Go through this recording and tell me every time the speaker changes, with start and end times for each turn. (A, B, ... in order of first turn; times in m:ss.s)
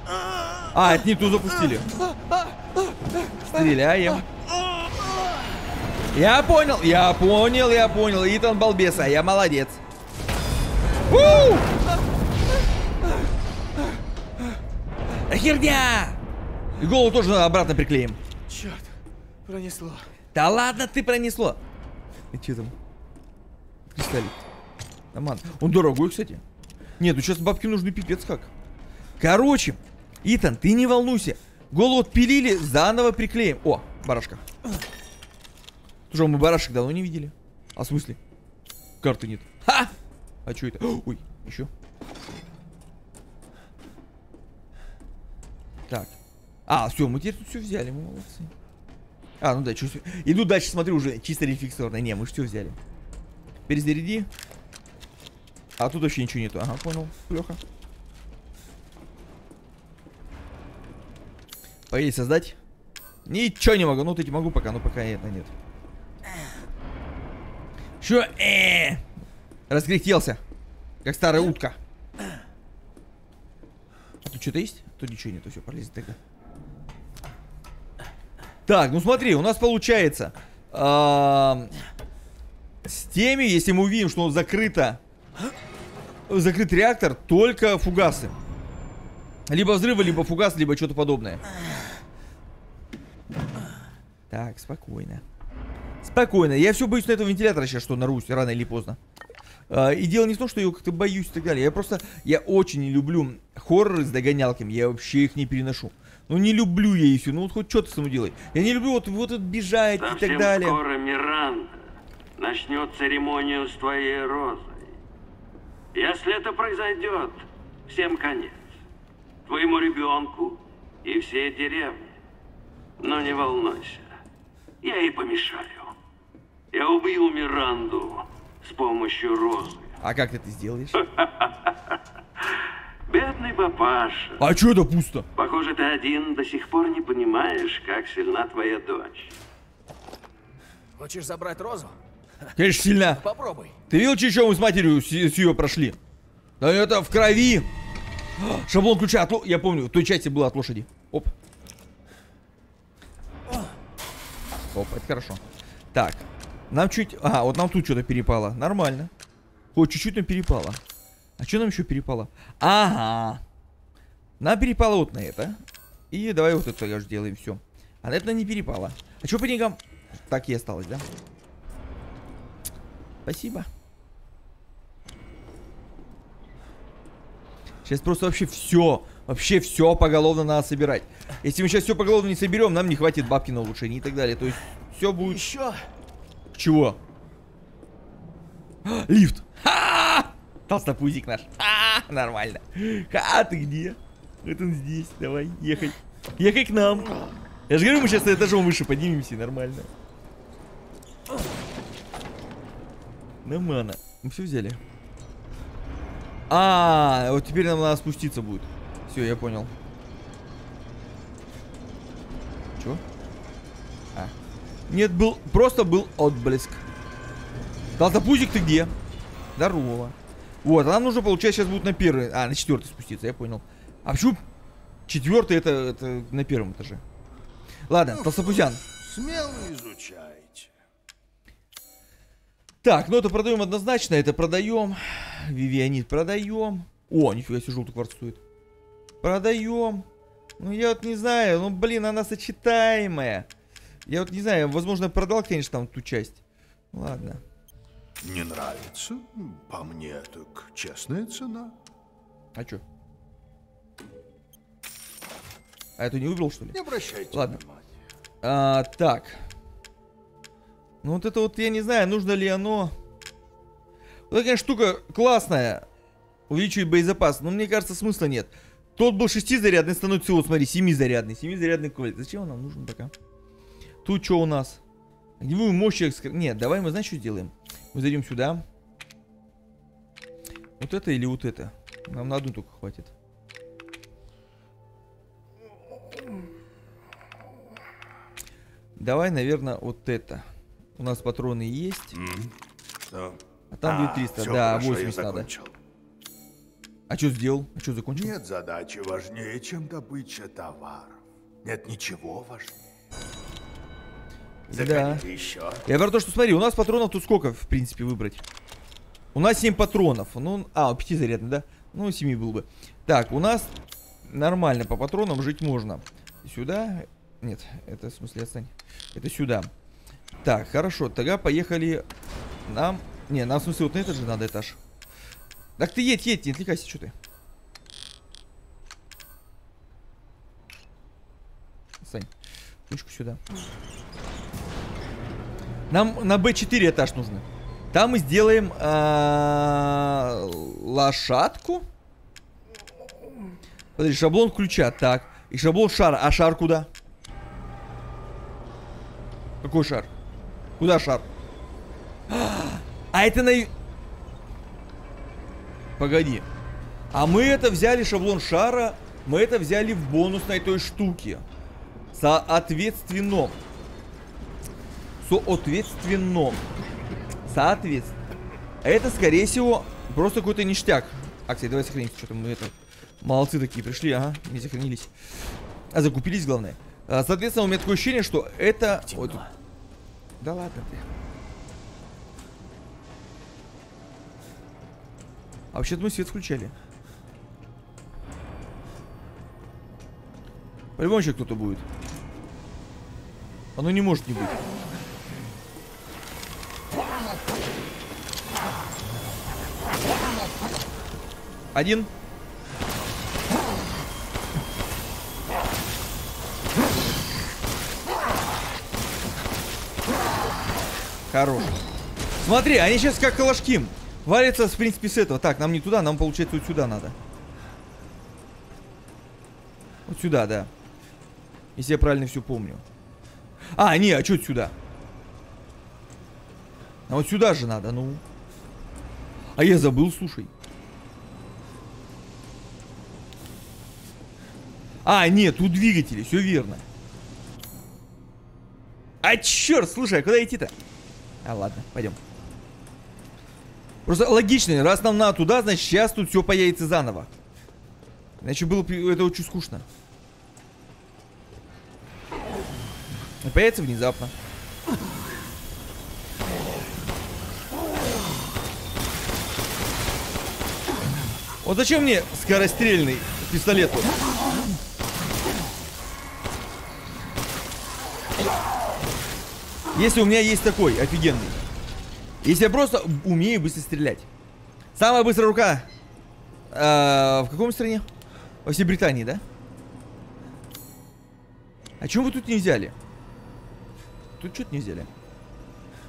0:00.7-0:01.9 A
0:03.5-0:04.2 A
0:06.1-0:09.8 A
0:11.1-0:11.7 A
0:15.3-0:16.2 A
0:16.8-0:18.2 A
0:18.5-0:18.9 B
0:19.4-0:20.1 B
0:20.3-0:21.6 A
0:22.3-0:22.7 A
0:23.9-0:24.4 A
0:25.1-0:26.4 A
0:27.0-0:28.5 A
0:29.2-0:34.4 A
0:36.1-0:38.2 A
0:39.0-0:39.9 A
0:40.4-0:41.7 A
0:45.9-0:46.1 A
0:46.7-0:48.5 A
0:49.4-0:52.8 A
0:53.7-0:54.3 A
0:55.8-0:57.6 A
1:01.9-1:02.6 A
1:03.2-1:05.5 A
1:08.0-1:09.0 A
1:09.7-1:10.4 A
1:11.0-1:11.8 A
1:14.2-1:16.2 A
1:18.7-1:21.7 A
1:22.8-1:25.0 A
1:26.3-1:28.3 A
1:29.5-1:31.4 A
1:34.3-1:35.2 A
1:36.0-1:39.0 A
1:39.7-1:50.8 A
1:50.0-1:51.8 C
1:52.4-1:54.9 C
1:55.9-1:58.7 C
1:59.5-2:02.1 C
2:03.0-2:04.1 C
2:04.8-2:05.9 C
2:06.7-2:10.0 C
2:10.0-2:11.0 A
2:11.0-2:14.4 C
2:14.4-2:15.2 A
2:15.4-2:19.3 C
2:21.0-2:22.0 B
2:22.6-2:23.2 A
2:23.2-2:23.7 B
2:23.9-2:26.0 A
2:26.6-2:27.7 A
2:28.4-2:31.3 A
2:34.7-2:35.4 A
2:35.9-2:39.1 A
2:39.7-2:40.8 A
2:41.4-2:43.4 A
2:44.4-2:45.6 A
2:46.1-2:51.0 A
2:53.2-2:53.7 A
2:57.8-3:05.4 A
3:05.2-3:05.8 B
3:06.5-3:07.0 A
3:08.8-3:17.1 A
3:17.7-3:19.9 A
3:23.4-3:24.8 A
3:26.5-3:29.7 A
3:34.9-3:36.8 A
3:38.0-3:38.9 A
3:39.6-3:44.4 A
3:45.1-3:47.0 A
3:47.9-3:48.8 A
3:48.2-3:50.7 D
3:52.8-3:58.4 A
3:59.2-4:00.0 A
4:00.6-4:03.5 A
4:04.0-4:06.4 A
4:06.9-4:07.4 A
4:08.2-4:11.8 D
4:12.5-4:12.8 A
4:16.0-4:16.8 A
4:16.7-4:17.9 D
4:17.3-4:17.6 A
4:18.4-4:19.4 A
4:21.0-4:22.9 A
4:24.3-4:25.8 A
4:26.5-4:33.1 A
4:34.0-4:34.8 A
4:35.4-4:38.6 A
4:40.8-4:43.1 A
4:49.0-4:50.4 A
4:51.0-4:52.2 A
4:52.1-4:55.8 D
4:53.7-4:55.5 A
4:57.1-4:58.3 A
4:58.1-5:02.8 D
5:04.7-5:05.2 A
5:04.7-5:05.8 D
5:05.8-5:08.4 A
5:09.3-5:13.7 A
5:14.2-5:19.7 A
5:20.4-5:22.0 A
5:22.7-5:24.8 A
5:25.8-5:27.1 A
5:32.0-5:32.3 A
5:32.9-5:33.4 A
5:35.9-5:41.8 A
5:44.0-5:46.9 A
5:49.6-5:50.1 A
5:50.8-5:51.2 A
5:52.3-5:53.7 A
5:56.0-5:56.4 A
5:57.1-6:01.4 A
6:02.1-6:03.6 A
6:05.2-6:06.6 A
6:07.5-6:08.2 A
6:08.8-6:15.1 A
6:15.9-6:19.4 A
6:19.1-6:19.5 B
6:20.4-6:21.0 A
6:25.7-6:26.7 A
6:31.0-6:31.8 A
6:33.8-6:34.6 A
6:41.7-6:42.1 A
6:51.3-6:51.7 A
6:52.4-6:57.2 A
7:00.1-7:00.7 A
7:01.8-7:02.8 A
7:03.7-7:04.7 A
7:07.1-7:08.2 A
7:09.6-7:10.5 A
7:15.0-7:16.8 A
7:19.2-7:20.7 A
7:21.4-7:22.2 A
7:24.0-7:27.3 A
7:28.4-7:29.8 A
7:33.4-7:34.3 A
7:41.6-7:44.1 A
7:49.9-7:51.6 A
7:52.4-7:54.3 A
7:55.0-7:55.9 A
7:56.7-7:58.0 A
7:58.6-7:59.4 A
8:02.0-8:02.9 A
8:04.4-8:05.1 A